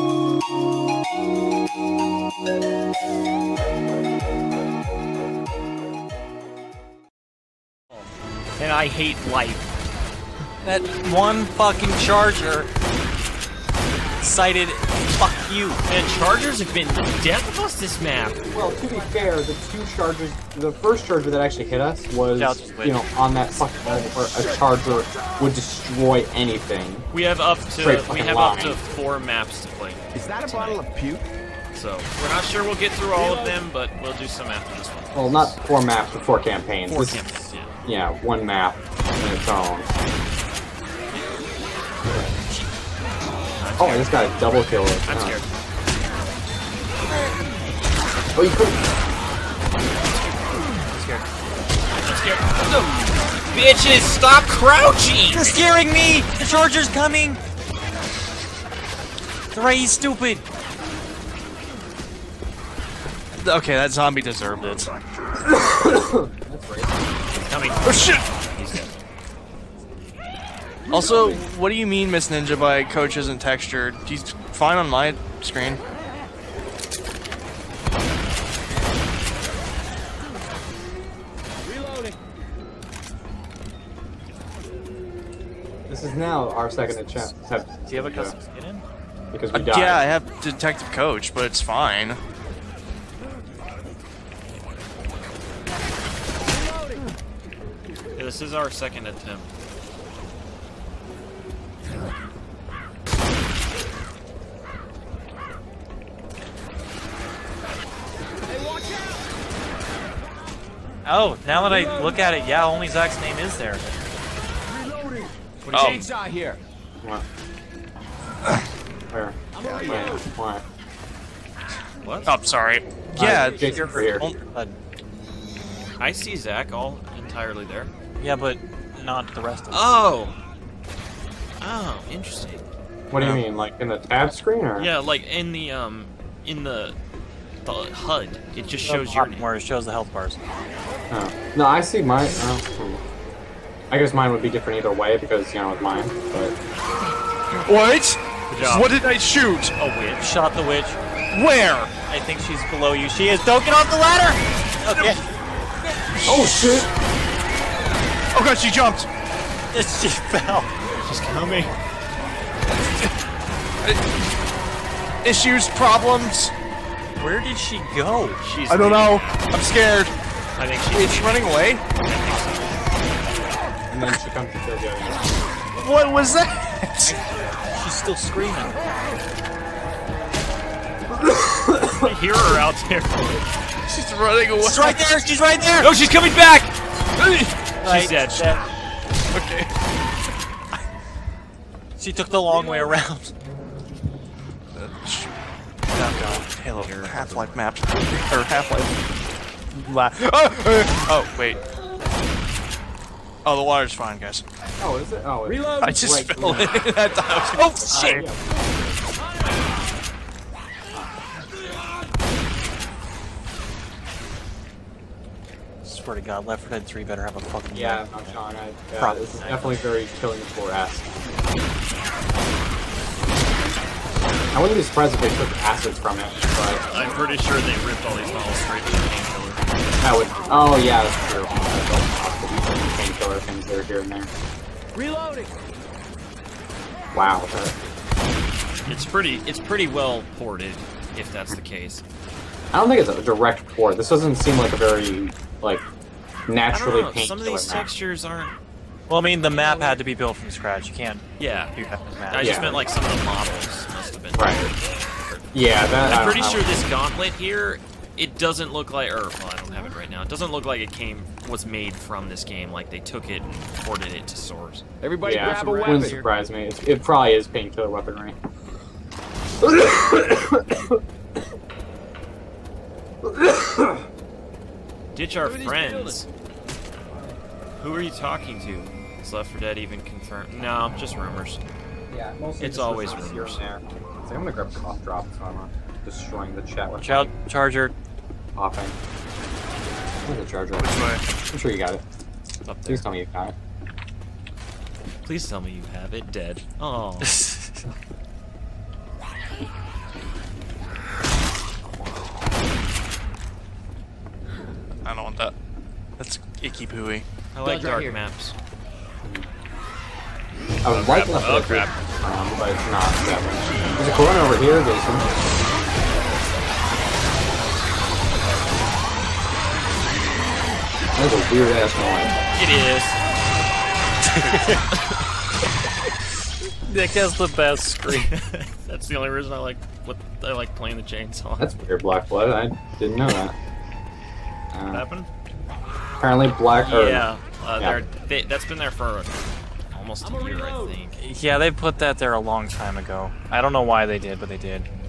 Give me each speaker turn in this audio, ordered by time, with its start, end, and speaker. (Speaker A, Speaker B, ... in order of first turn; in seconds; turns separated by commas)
Speaker A: 8.6-9.7, Speaker B: 10.6-12.7, Speaker B: 14.2-15.8, Speaker A: 15.9-18.4, Speaker C: 18.5-27.1, Speaker B: 22.4-24.2, Speaker A: 27.1-30.8, Speaker C: 27.8-28.8, Speaker D: 30.1-31.3, Speaker A: 31.7-35.6, Speaker D: 33.2-33.6, Speaker C: 35.1-37.3, Speaker A: 36.9-37.8, Speaker C: 37.9-39.9, Speaker A: 43.6-44.4, Speaker C: 43.8-45.4, Speaker A: 45.1-45.5, Speaker C: 48.4-48.8, Speaker B: 50.9-51.2, Speaker A: 52.0-55.6, Speaker B: 55.3-57.4, Speaker B: 59.5-60.4, Speaker E: 63.4-64.9, Speaker C: 65.5-67.2, Speaker A: 67.3-69.0, Speaker E: 67.8-68.3, Speaker E: 70.9-75.8, Speaker C: 85.9-88.3, Speaker B: 86.9-87.3, Speaker B: 87.9-88.8, Speaker C: 89.3-90.0, Speaker E: 89.5-92.2, Speaker A: 98.2-99.5, Speaker B: 111.0-113.9, Speaker D: 115.2-116.6, Speaker A: 115.6-116.1, Speaker E: 115.7-116.0, Speaker C: 119.1-120.6, Speaker D: 119.6-120.2, Speaker E: 119.7-119.9, Speaker A: 122.0-122.4, Speaker E: 122.3-124.4, Speaker C: 123.2-124.3, Speaker B: 124.0-124.8, Speaker A: 126.0-127.9, Speaker B: 128.2-129.9, Speaker A: 129.7-130.4, Speaker A: 131.6-132.7, Speaker C: 133.1-134.9, Speaker E: 133.2-133.4, Speaker A: 134.8-137.0, Speaker A: 137.7-139.5, Speaker B: 138.8-140.4, Speaker C: 141.1-143.0, Speaker C: 143.9-146.6, Speaker E: 147.6-149.7, Speaker A: 148.5-149.0, Speaker A: 149.8-150.3, Speaker B: 150.2-151.0, Speaker E: 151.3-151.9, Speaker B: 152.1-155.2, Speaker E: 156.2-156.5, Speaker C: 156.3-156.9, Speaker E: 158.3-159.1, Speaker B: 159.7-160.7, Speaker A: 161.0-161.7, Speaker E: 165.2-166.5, Speaker B: 167.2-168.4, Speaker A: 168.4-169.3, Speaker E: 168.7-170.2, Speaker A: 170.6-172.8, Speaker E: 170.9-171.8, Speaker C: 173.9-175.3, Speaker E: 175.7-177.2, Speaker B: 177.1-178.8, Speaker C: 181.1-182.1, Speaker A: 181.9-183.4, Speaker E: 183.9-185.2, Speaker B: 184.6-185.9, Speaker A: 185.8-186.7, Speaker E: 187.2-188.4, Speaker A: 187.8-188.5, Speaker B: 187.8-188.6, Speaker E: 189.3-189.7, Speaker B: 192.0-193.3, Speaker E: 194.7-195.3, Speaker E: 195.9-198.9, Speaker A: 196.6-197.6, Speaker E: 199.7-201.6, Speaker E: 203.4-204.4, Speaker C: 204.8-206.9, Speaker D: 205.5-205.9, Speaker E: 205.8-208.3, Speaker A: 207.6-208.3, Speaker C: 207.8-209.0, Speaker C: 210.9-211.2, Speaker B: 215.8-218.4, Speaker C: 217.7-221.1, Speaker B: 219.0-219.9, Speaker C: 224.5-226.8, Speaker A: 226.9-229.6, Speaker C: 230.0-234.3, Speaker D: 235.0-235.4, Speaker C: 237.1-237.8, Speaker A: 238.9-242.0, Speaker C: 242.7-245.8, Speaker C: 246.5-247.9, Speaker A: 246.7-248.5, Speaker B: 249.1-252.9, Speaker A: 249.6-249.9, Speaker A: 251.4-251.8, Speaker A: 252.3-255.5, Speaker C: 252.4-252.8, Speaker C: 254.3-254.7, Speaker C: 255.5-256.7, Speaker A: 256.0-264.9, Speaker D: 265.0-266.3, Speaker C: 265.2-268.4, Speaker C: 269.6-271.0, Speaker C: 273.4-274.0, Speaker A: 275.1-276.3, Speaker D: 275.4-276.2, Speaker A: 277.8-281.6, Speaker C: 282.1-287.3, Speaker A: 282.6-283.6, Speaker B: 287.0-287.9, Speaker C: 288.6-288.9, Speaker C: 290.2-292.0, Speaker E: 290.8-291.2, Speaker A: 292.6-293.1, Speaker C: 292.9-293.6, Speaker A: 295.2-297.4, Speaker B: 297.2-297.8, Speaker E: 305.1-305.5, Speaker E: 306.2-307.3, Speaker A: 307.5-308.6, Speaker D: 307.6-308.2, Speaker C: 310.8-315.3, Speaker A: 310.9-311.9, Speaker C: 321.2-322.4, Speaker A: 322.6-323.2, Speaker E: 324.4-324.8, Speaker B: 324.4-324.8, Speaker B: 326.9-328.3, Speaker A: 328.1-331.7, Speaker C: 331.6-333.6, Speaker C: 334.7-335.1, Speaker A: 334.9-335.3, Speaker C: 336.2-338.0, Speaker A: 336.7-339.4, Speaker A: 339.9-341.2, Speaker D: 340.2-340.9, Speaker B: 341.2-344.9